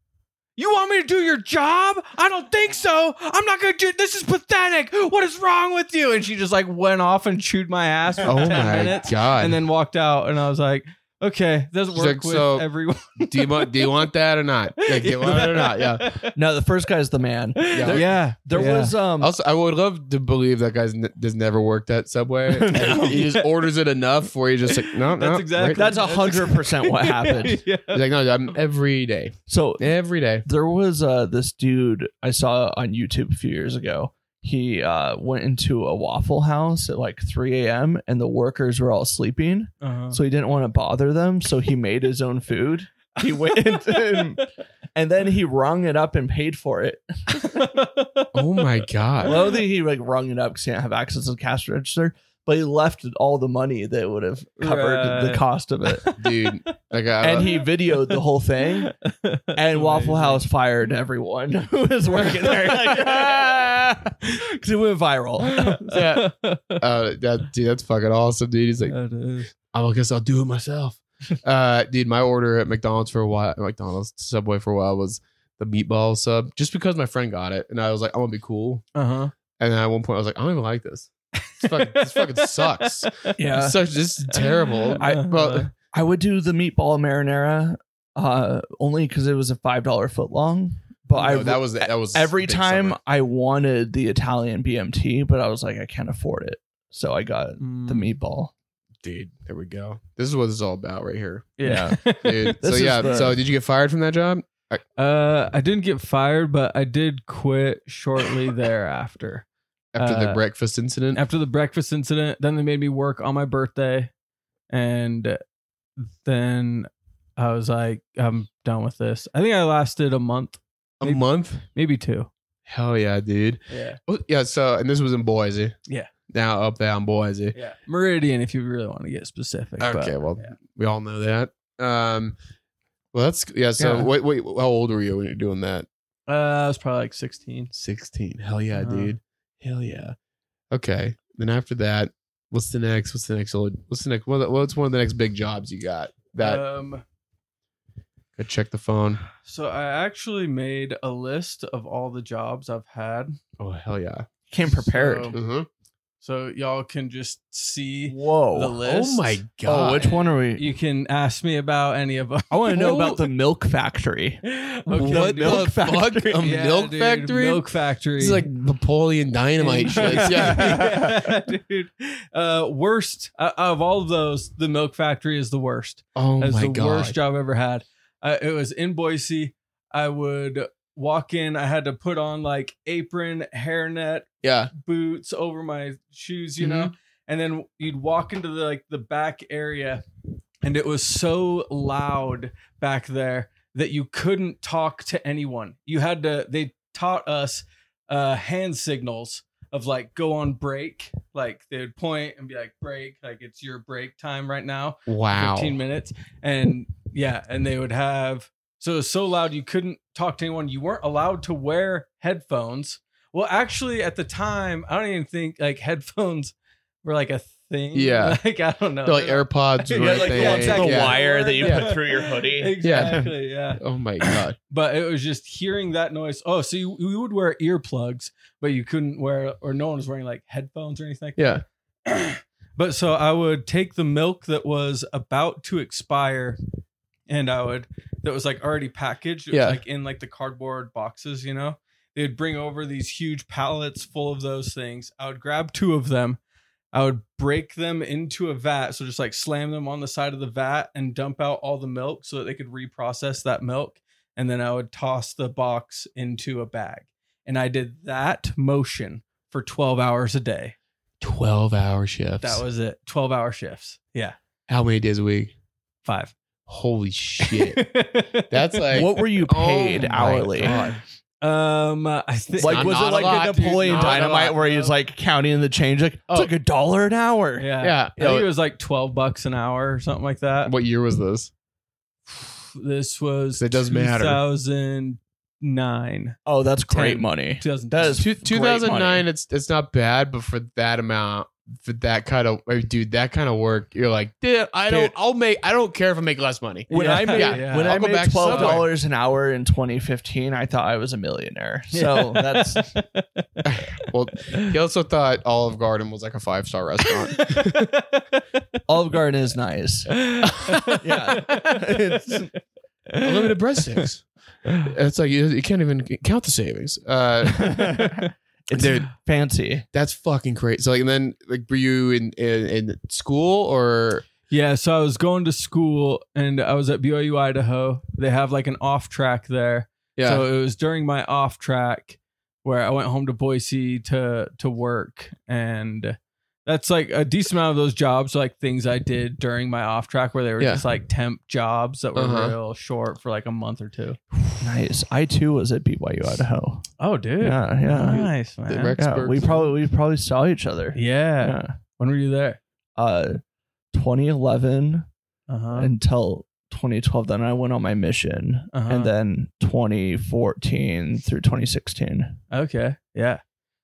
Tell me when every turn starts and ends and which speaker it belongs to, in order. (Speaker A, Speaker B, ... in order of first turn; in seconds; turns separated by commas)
Speaker A: 0.6-14.0, Speaker B: 8.2-9.6, Speaker B: 11.9-12.7, Speaker B: 13.2-16.1, Speaker A: 14.8-16.3, Speaker C: 16.3-19.3, Speaker A: 17.6-19.0, Speaker B: 17.7-18.0, Speaker B: 19.2-25.9, Speaker C: 22.5-23.3, Speaker A: 23.0-23.3, Speaker A: 25.1-28.0, Speaker C: 25.7-27.6, Speaker B: 27.9-30.4, Speaker C: 29.5-29.9, Speaker C: 30.4-47.5, Speaker A: 39.8-40.2, Speaker A: 43.2-44.5, Speaker A: 47.3-48.3, Speaker B: 48.3-49.4, Speaker C: 49.2-56.2, Speaker A: 49.2-49.6, Speaker A: 54.6-55.4, Speaker B: 56.2-57.5, Speaker C: 57.2-59.0, Speaker A: 58.9-60.4, Speaker C: 59.5-65.9, Speaker A: 65.5-66.8, Speaker B: 65.9-69.0, Speaker A: 68.9-69.5, Speaker B: 69.7-78.9, Speaker A: 79.0-79.3, Speaker B: 79.6-85.7, Speaker A: 81.5-83.4, Speaker C: 83.4-83.8, Speaker A: 84.3-85.7, Speaker C: 85.0-98.5, Speaker B: 91.2-93.0, Speaker A: 97.6-98.1, Speaker B: 99.0-104.8, Speaker A: 101.6-103.3, Speaker C: 101.6-103.4, Speaker A: 105.0-109.5, Speaker B: 109.9-111.2, Speaker A: 110.0-110.4, Speaker A: 111.1-114.1, Speaker A: 114.7-115.4, Speaker A: 116.0-122.3, Speaker B: 121.0-121.6, Speaker B: 122.7-125.8, Speaker A: 123.7-124.0, Speaker B: 126.3-127.5, Speaker A: 127.5-130.6, Speaker B: 129.8-132.4, Speaker B: 133.1-135.9, Speaker C: 133.8-134.1, Speaker A: 136.3-137.7, Speaker B: 137.7-140.2, Speaker A: 138.7-139.1, Speaker B: 140.7-146.6, Speaker A: 146.4-147.1, Speaker B: 148.4-149.2, Speaker A: 149.4-153.4, Speaker B: 153.6-154.3, Speaker C: 154.5-155.4, Speaker A: 154.7-155.4, Speaker B: 155.3-155.7, Speaker A: 156.2-159.4, Speaker C: 158.1-158.8, Speaker B: 158.8-160.1, Speaker C: 159.7-160.7, Speaker A: 160.0-162.7, Speaker C: 162.5-166.6, Speaker B: 162.7-163.2, Speaker A: 164.5-165.8, Speaker B: 164.9-167.6, Speaker A: 166.4-168.5, Speaker B: 168.2-171.2, Speaker A: 169.6-190.0, Speaker C: 170.0-171.2, Speaker B: 176.2-177.2, Speaker B: 184.4-184.7, Speaker B: 186.6-186.9, Speaker A: 190.6-236.6, Speaker B: 205.1-205.8, Speaker B: 217.9-218.4, Speaker B: 219.0-221.9, Speaker C: 219.9-223.3, Speaker B: 222.8-224.6, Speaker B: 231.4-231.6, Speaker A: 237.3-246.4, Speaker B: 239.5-239.8, Speaker A: 246.9-260.8, Speaker B: 261.2-262.6, Speaker A: 262.4-264.4, Speaker B: 264.7-265.5, Speaker A: 266.1-266.3, Speaker B: 266.7-267.9, Speaker A: 267.4-269.2, Speaker B: 268.5-271.0, Speaker C: 268.9-270.8, Speaker A: 271.4-274.9, Speaker C: 272.6-277.7, Speaker B: 272.6-274.6, Speaker A: 277.6-280.7, Speaker B: 277.8-278.5, Speaker B: 280.6-281.5, Speaker A: 282.3-286.4, Speaker B: 283.6-284.4, Speaker C: 286.5-289.3, Speaker A: 286.9-288.2, Speaker B: 288.2-298.9, Speaker A: 296.9-298.9, Speaker C: 296.9-303.0, Speaker A: 301.9-303.6, Speaker B: 303.6-307.9, Speaker A: 307.4-308.6, Speaker C: 308.9-310.3, Speaker A: 310.1-312.5, Speaker C: 311.0-312.5, Speaker B: 313.2-317.9, Speaker C: 317.6-319.8, Speaker A: 318.0-318.3, Speaker B: 318.7-319.1, Speaker B: 319.9-324.3, Speaker A: 324.5-344.2, Speaker B: 330.2-330.4, Speaker B: 342.1-342.6, Speaker C: 344.6-346.9, Speaker A: 347.0-349.0, Speaker C: 347.4-348.3, Speaker B: 348.1-349.6, Speaker C: 349.0-351.7, Speaker A: 350.9-352.6, Speaker C: 353.0-353.4, Speaker C: 353.9-355.1, Speaker A: 355.5-355.9, Speaker C: 355.8-362.4, Speaker A: 358.7-359.1, Speaker A: 362.5-363.4